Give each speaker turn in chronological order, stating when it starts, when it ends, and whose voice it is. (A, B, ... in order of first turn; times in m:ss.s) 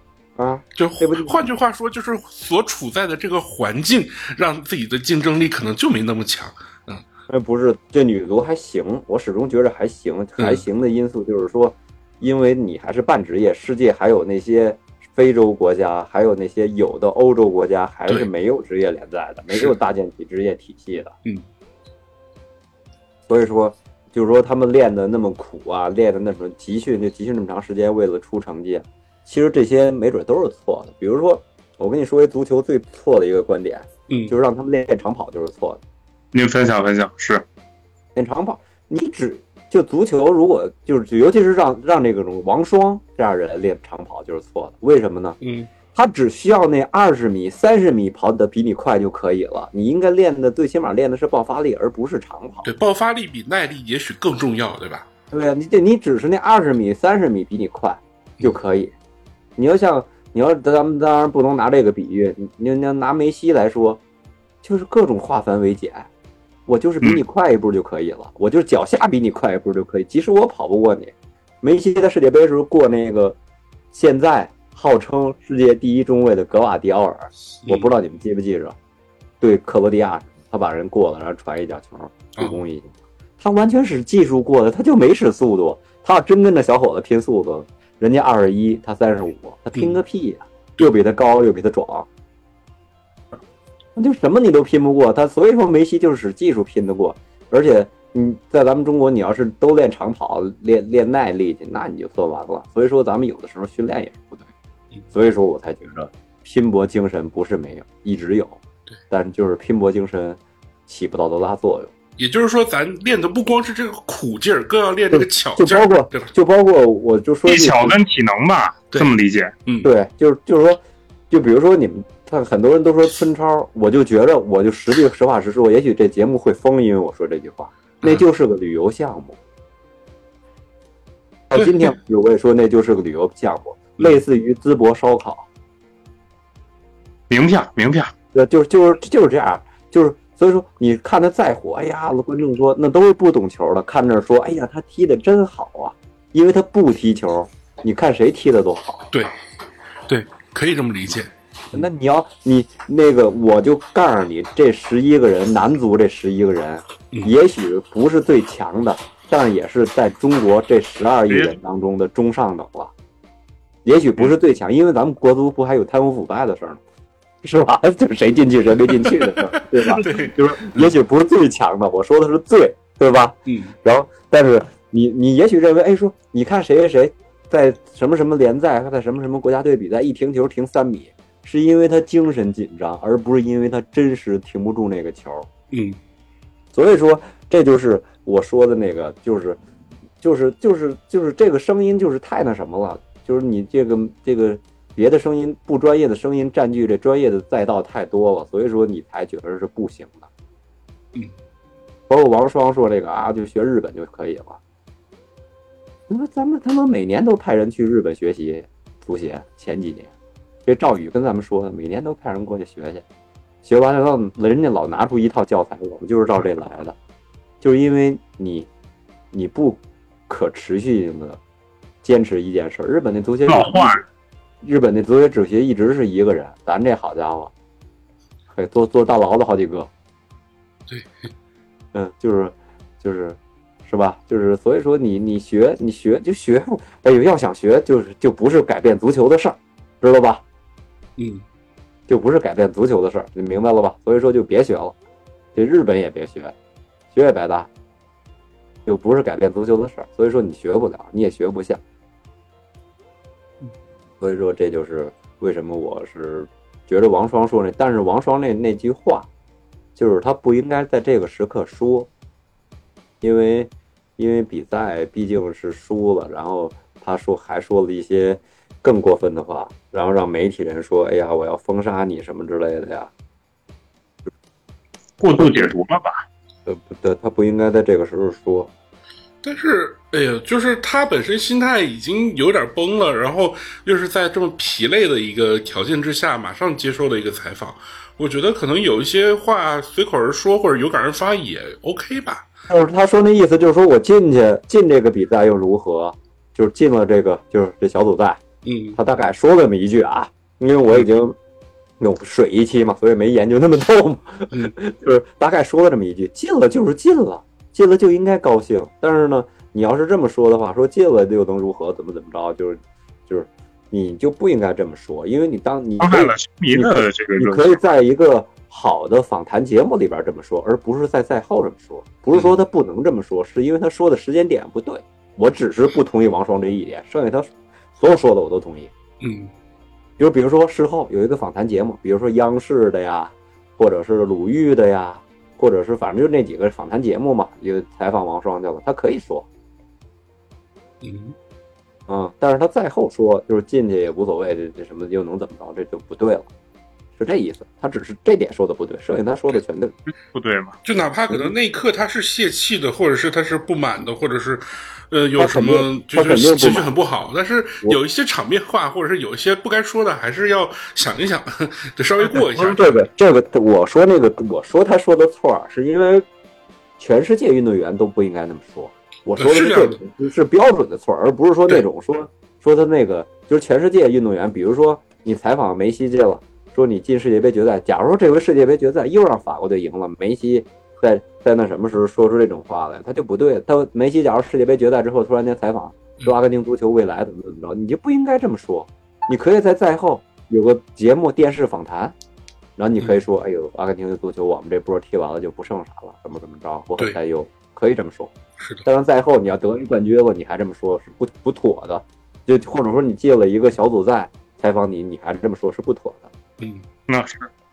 0:00.4-0:01.4 A
0:00.8-0:07.0 B
0:07.3-0:21.1 A
0:19.5-0:19.8 B
0:23.3-0:35.8 A
0:36.3-0:37.4 C
0:38.2-0:45.4 A
0:45.4-0:45.7 B
0:45.9-0:52.7 A
0:52.6-0:55.1 B
0:55.3-0:58.9 A
0:59.6-1:04.0 A
1:04.6-1:06.1 A
1:06.7-1:13.4 A
1:13.9-1:18.8 A
1:17.6-1:17.9 B
1:19.4-1:32.1 A
1:34.0-1:44.5 A
1:45.1-1:51.9 A
1:52.2-1:56.3 B
1:55.1-1:58.0 A
1:57.5-1:59.5 C
1:59.7-1:59.9 B
1:59.8-2:09.4 A
2:11.5-2:15.5 A
2:11.6-2:11.9 B
2:17.3-2:18.1 C
2:18.3-2:29.1 A
2:30.1-2:31.3 B
2:31.7-2:42.9 A
2:43.9-2:46.8 A
2:47.4-3:05.5 A
2:49.8-2:50.9 B
2:53.5-2:53.8 B
3:05.7-3:06.0 B
3:06.7-3:09.6 A
3:10.2-3:20.3 A
3:22.1-3:24.6 A
3:26.1-3:30.1 A
3:30.7-3:33.0 A
3:33.6-3:37.0 A
3:37.6-3:38.7 A
3:39.3-3:41.4 A
3:42.0-3:44.0 A
3:43.5-3:44.0 C
3:44.6-3:47.5 A
3:48.5-3:49.9 A
3:50.9-3:51.3 B
3:51.9-4:00.4 A
4:01.2-4:01.4 B
4:02.1-4:05.0 A
4:05.6-4:06.5 A
4:07.1-4:07.7 A
4:08.9-4:11.8 A
4:14.2-4:19.3 A
4:20.0-4:22.1 A
4:23.2-4:33.1 A
4:35.2-4:36.2 C
4:35.4-4:35.7 A
4:36.7-4:38.7 A
4:39.4-4:52.5 B
4:52.7-4:58.4 A
4:58.6-4:59.0 B
4:59.0-5:01.4 A
5:02.0-5:28.9 A
5:16.0-5:17.7 C
5:29.2-5:29.5 B
5:30.2-5:39.5 A
5:41.0-5:41.4 B
5:42.1-5:46.5 A
5:47.2-5:49.9 A
5:50.3-5:50.8 C
5:50.8-6:03.1 B
5:55.4-5:56.9 A
6:02.2-6:06.2 A
6:07.0-6:32.2 A
6:09.4-6:10.0 B
6:32.8-6:38.3 A
6:38.6-6:38.8 B
6:38.8-6:46.3 A
6:46.6-6:46.8 B
6:47.1-6:47.5 C